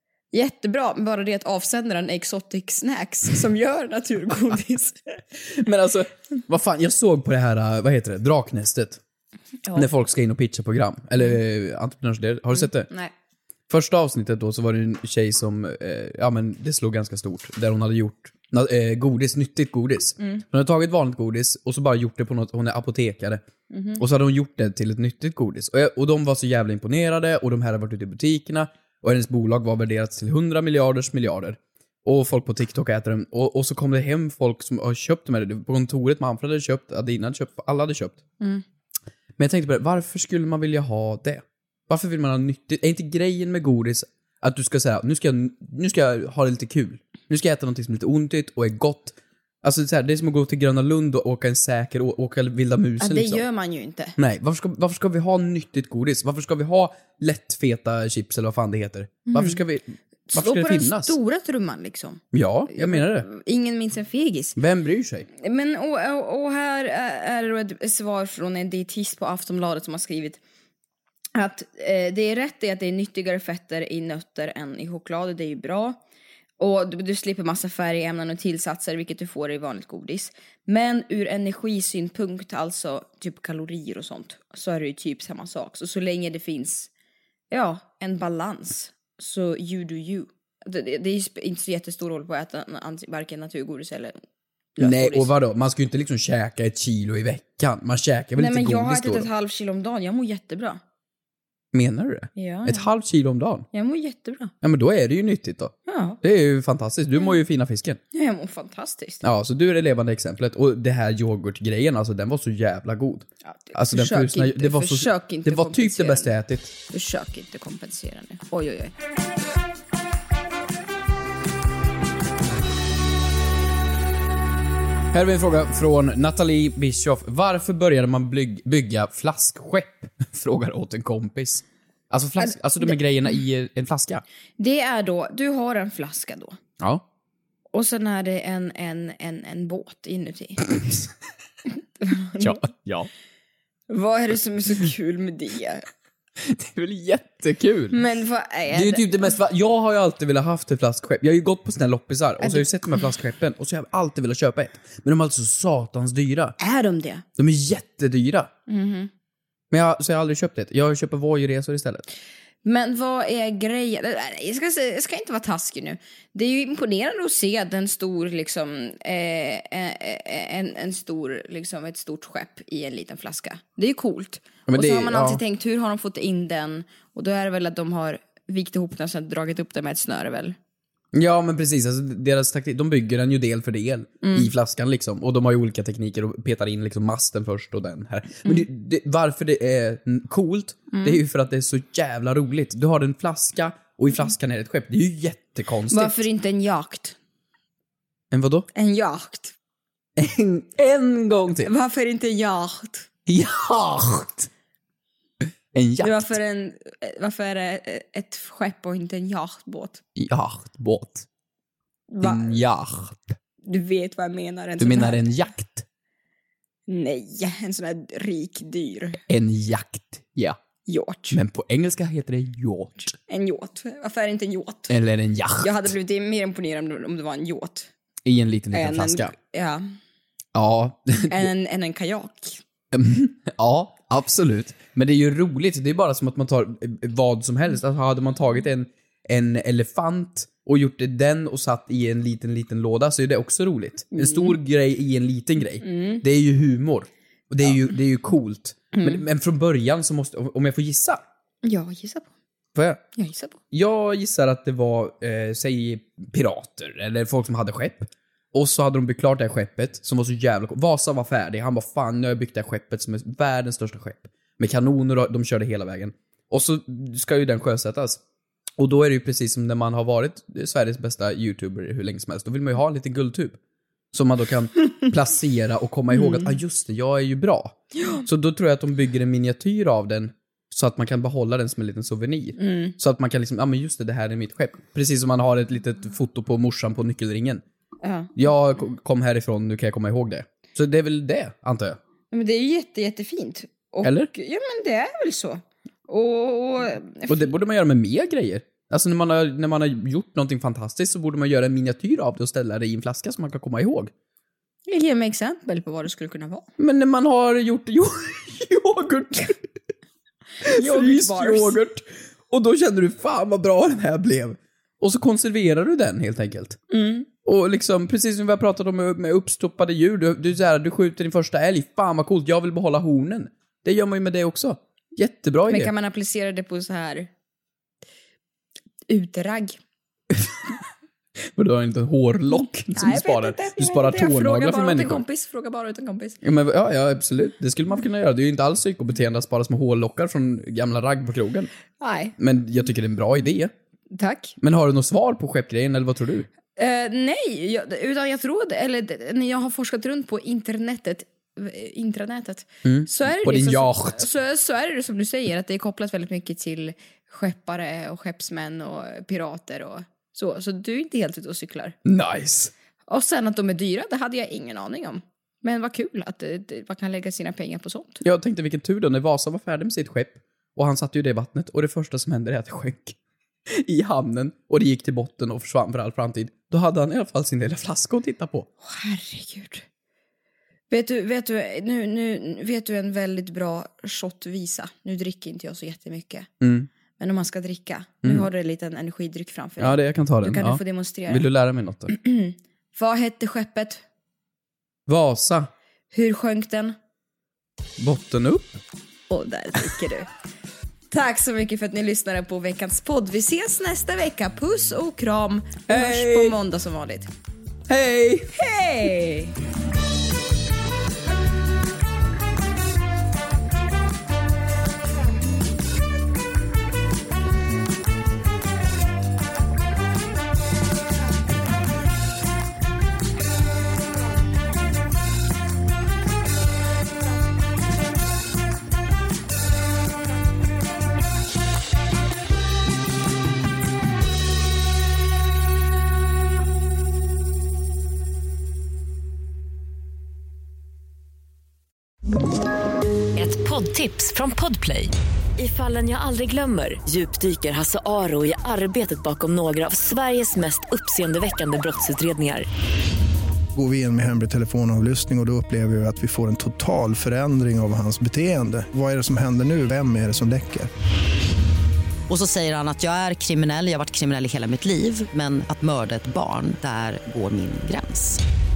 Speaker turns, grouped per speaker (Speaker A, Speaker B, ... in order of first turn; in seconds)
Speaker A: 0.3-5.2, 23.7-24.0, 53.0-54.1, 59.3-59.6, 60.3-64.6, 65.4-70.4, 71.3-76.0, 76.6-86.9, 87.5-94.2, 94.8-95.3, 98.3-100.8, 102.3-102.8, 103.7-104.5, 105.8-106.2, 108.1-109.2, 113.5-116.3, 116.9-118.9, 132.4-132.9, 134.6-136.6, 137.7-140.7, 142.0-142.6, 143.9-145.8, 147.9-149.4, 152.4-152.7, 156.6-157.2, 158.7-159.1, 162.6-180.6, 184.2-184.5, 190.9-191.2, 195.9-197.2, 198.7-199.5, 201.6-203.1, 206.0-210.0, 212.1-212.6, 213.6-215.2, 216.9-219.2, 220.9-221.4, 223.3-224.9, 225.6-227.9, 228.7-229.8, 231.3-232.6, 244.1-244.6, 245.8-246.2, 248.9-249.2, 251.6-252.3, 253.2-253.6, 276.1-276.5, 282.6-282.9, 288.0-288.3, 292.3-297.5, 304.9-306.6, 310.6-311.8, 316.9-317.3, 325.7-327.3, 329.1-329.8, 332.9-336.4, 342.0-342.3, 344.1-344.6, 346.8-361.9, 363.1-368.2, 378.8-379.8, 380.9-386.5, 387.2-391.4, 392.1-394.0, 396.1-396.9, 399.3-400.3, 401.1-407.3, 408.5-409.5
Speaker B: 5.5-9.0, 9.7-12.9, 13.7-23.4, 23.9-38.2, 39.4-53.4, 54.2-61.1, 62.3-63.3, 64.6-65.3, 94.8-99.3, 101.7-103.7, 104.6-108.0, 109.2-116.7, 125.1-134.2, 142.4-143.1, 146.4-148.0, 148.7-156.5, 157.4-158.5, 159.7-162.0, 174.7-175.4, 181.1-196.2, 198.3-198.7, 200.2-201.7, 203.3-204.5, 205.7-206.3, 210.2-211.2, 212.2-213.3, 214.8-215.8, 219.3-220.6, 221.3-223.1, 224.9-225.9, 228.2-229.3, 230.5-231.5, 232.9-251.2, 252.7-253.0, 253.7-268.2, 268.8-273.6, 274.1-287.6, 288.4-292.0, 294.0-294.3, 297.3-304.1, 306.8-309.8, 310.6-316.8, 317.4-325.9, 331.6-335.2, 336.4-341.7, 342.4-343.7, 344.6-346.5, 352.8-354.2, 362.0-362.7, 368.2-373.2, 373.7-378.7, 386.6-386.9, 389.8-392.1, 395.1-395.7, 398.0-398.8, 405.9-406.6, 407.9-408.5
Speaker C: 443.3-452.7
Speaker D: 453.7-460.9
Speaker E: 462.3-468.4